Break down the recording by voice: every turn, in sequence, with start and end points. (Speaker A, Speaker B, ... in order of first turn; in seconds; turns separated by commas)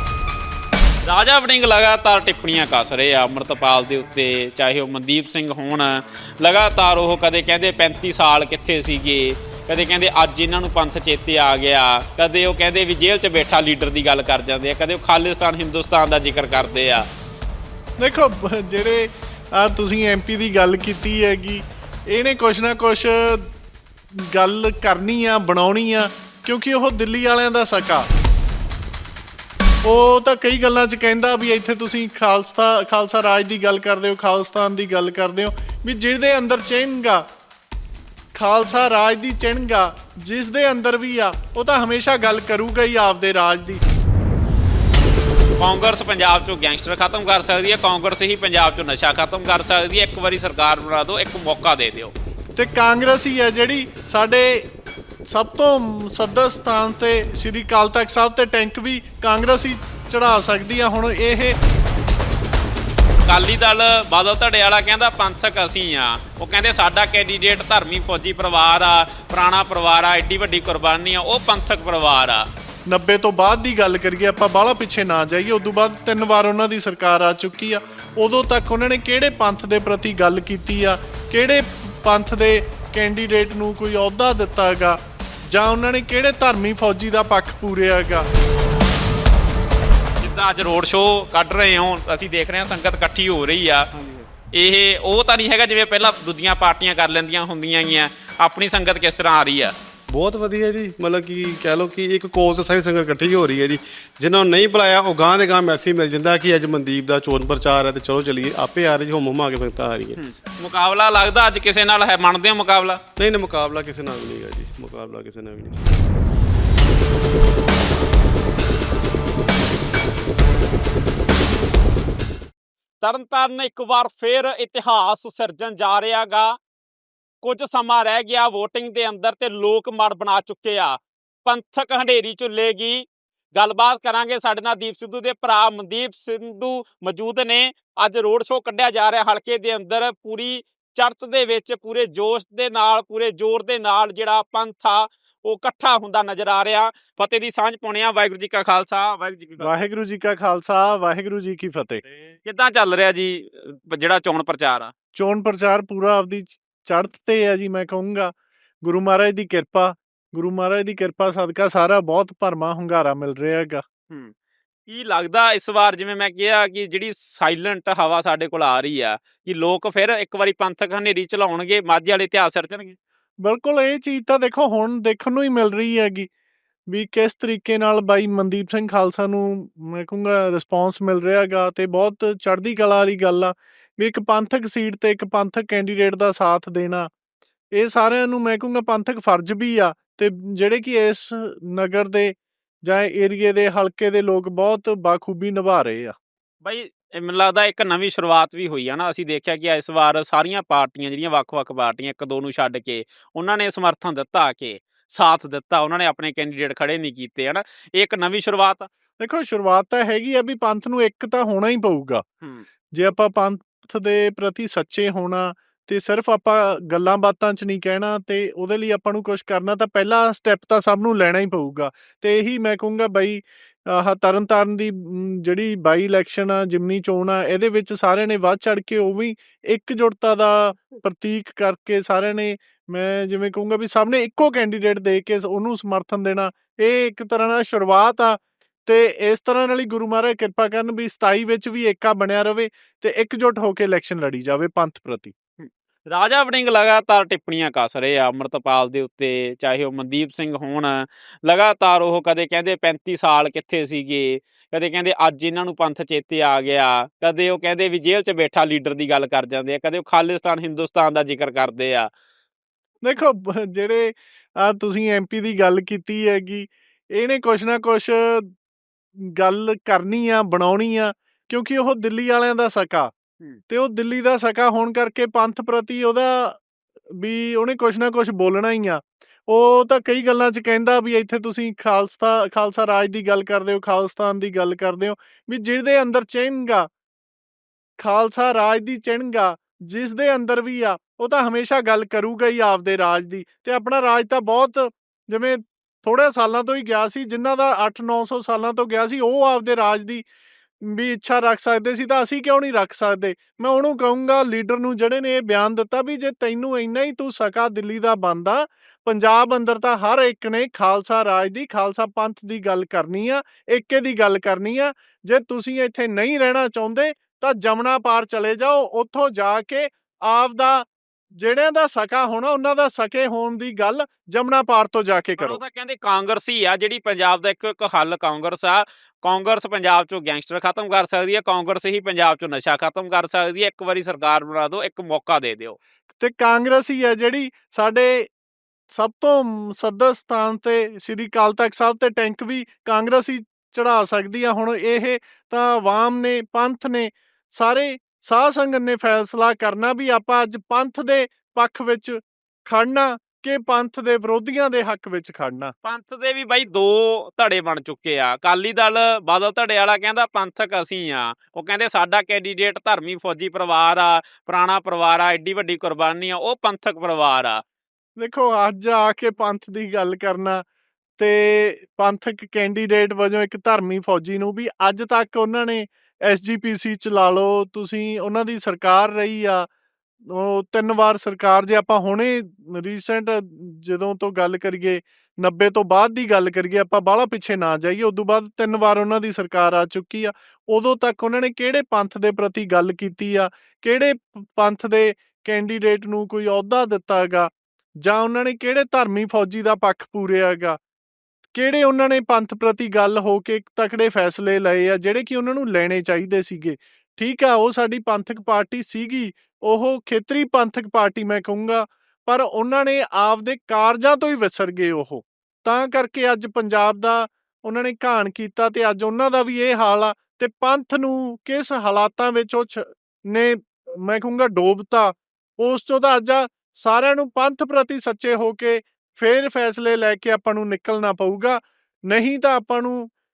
Speaker A: 1.1-17.1, Speaker B: 18.0-23.5, Speaker B: 24.2-28.1, Speaker B: 29.8-37.2, Speaker B: 38.3-43.8, Speaker A: 45.6-52.1, Speaker B: 52.5-54.6, Speaker B: 55.3-61.5, Speaker A: 63.3-72.5, Speaker B: 72.9-88.2, Speaker A: 90.2-93.9, Speaker C: 93.9-94.3, Speaker A: 94.5-99.7, Speaker C: 100.1-110.2, Speaker A: 110.2-113.0, Speaker C: 113.2-115.9, Speaker A: 123.0-126.6, Speaker A: 127.4-149.7, Speaker B: 149.6-152.0, Speaker A: 152.4-154.9, Speaker B: 155.1-158.3, Speaker B: 158.8-163.8, Speaker A: 164.9-172.9, Speaker B: 173.4-176.3, Speaker B: 176.9-187.1, Speaker B: 187.8-192.3, Speaker B: 192.8-196.2, Speaker A: 196.6-208.9, Speaker B: 209.2-212.2, Speaker B: 212.9-245.3, Speaker A: 245.6-262.1, Speaker B: 263.0-268.5, Speaker B: 269.4-273.1, Speaker B: 273.7-276.6, Speaker B: 277.2-286.9, Speaker B: 288.0-300.2, Speaker B: 300.8-325.6, Speaker A: 325.4-335.8, Speaker B: 336.2-338.3, Speaker B: 338.9-355.7, Speaker A: 355.8-367.6, Speaker B: 368.2-370.6, Speaker B: 371.2-379.7, Speaker B: 380.3-397.5, Speaker B: 398.0-400.8, Speaker B: 401.5-433.1